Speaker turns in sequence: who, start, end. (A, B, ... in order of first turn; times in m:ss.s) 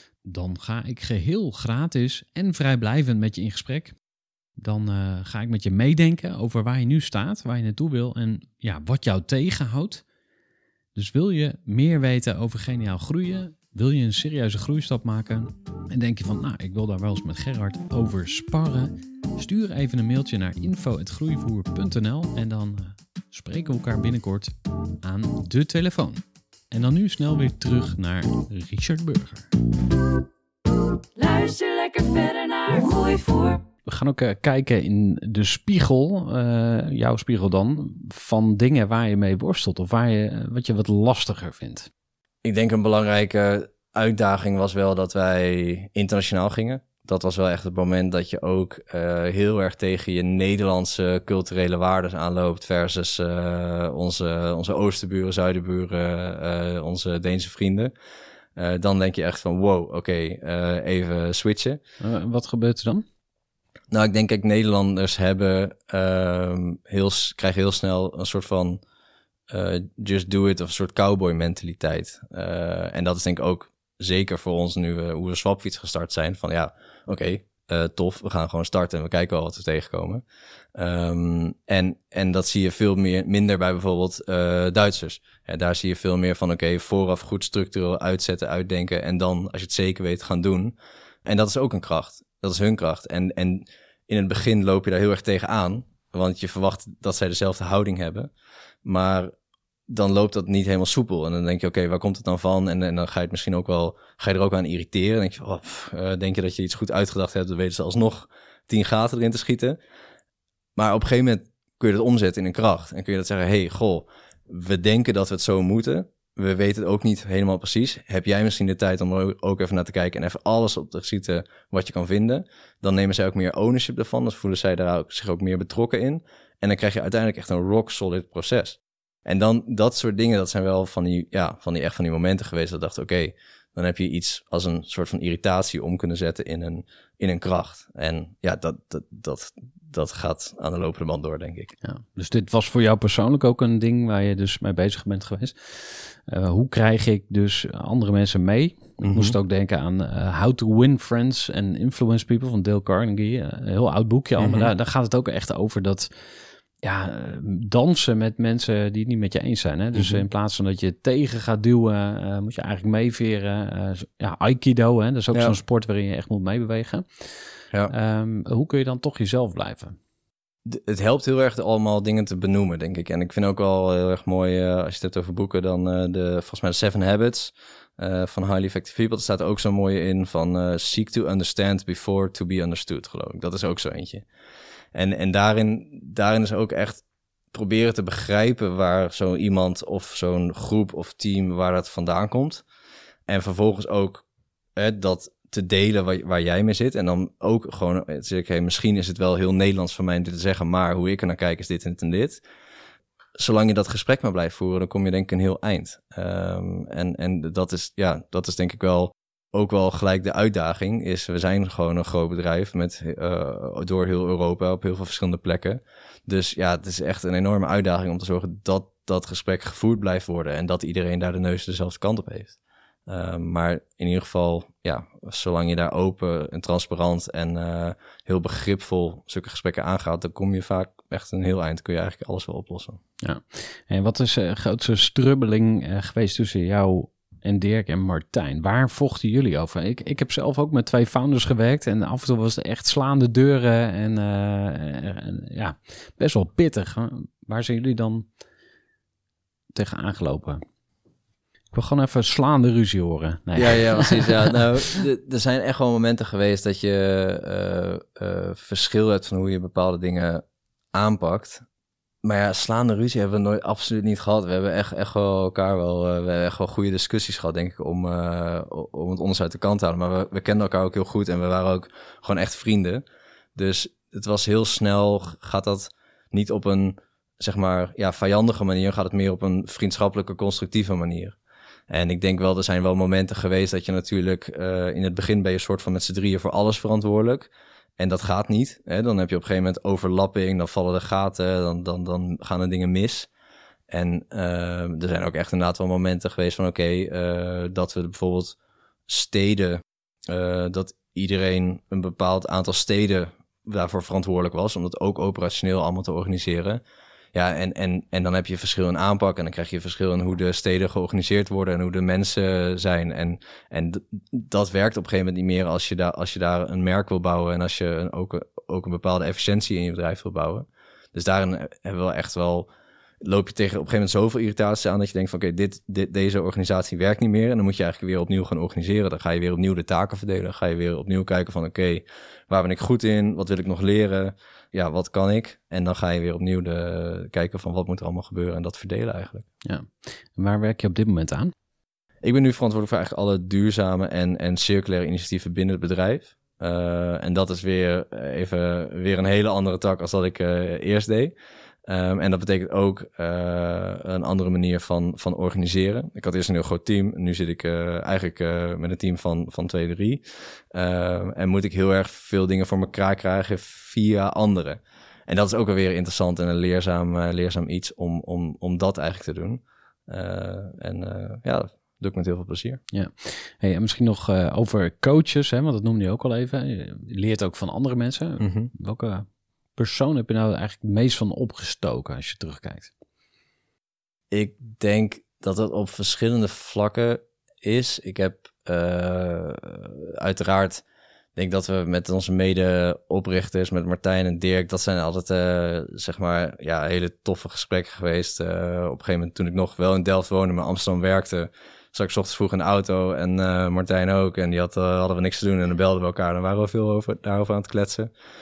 0:00.2-0:04.0 A
0:04.6-0:10.0 A
0:10.9-0:29.5 A
0:31.2-0:33.6 B
0:33.8-0:41.9 A
0:42.4-0:57.9 C
0:58.6-1:01.8 C
1:02.0-1:03.0 A
1:03.9-1:08.8 C
1:09.5-1:20.2 C
1:20.8-1:38.3 C
1:38.8-1:39.3 C
1:39.9-1:49.8 C
1:50.8-2:21.7 C
2:21.8-2:36.1 A
2:29.0-2:29.3 C
2:34.4-2:34.7 C
2:36.8-2:50.0 A
2:40.0-2:40.2 C
2:50.6-3:04.2 C
3:04.9-3:12.6 C
3:13.3-3:14.2 C
3:14.8-3:22.4 C
3:23.4-3:42.6 C
3:43.1-3:53.0 C
3:53.2-4:08.3 A
4:09.7-4:10.6 A
4:11.7-4:15.0 A
4:13.6-4:21.6 C
4:22.2-4:41.4 C
4:41.9-4:53.3 C
4:53.9-4:58.6 C
4:59.1-5:06.8 C
5:07.3-5:22.7 C
5:23.2-5:39.5 C
5:39.6-5:41.5 A
5:42.2-5:51.3 C
5:51.8-6:12.8 C
6:12.9-6:22.9 A
6:18.4-6:18.7 C
6:24.3-6:30.8 C
6:31.4-6:48.1 C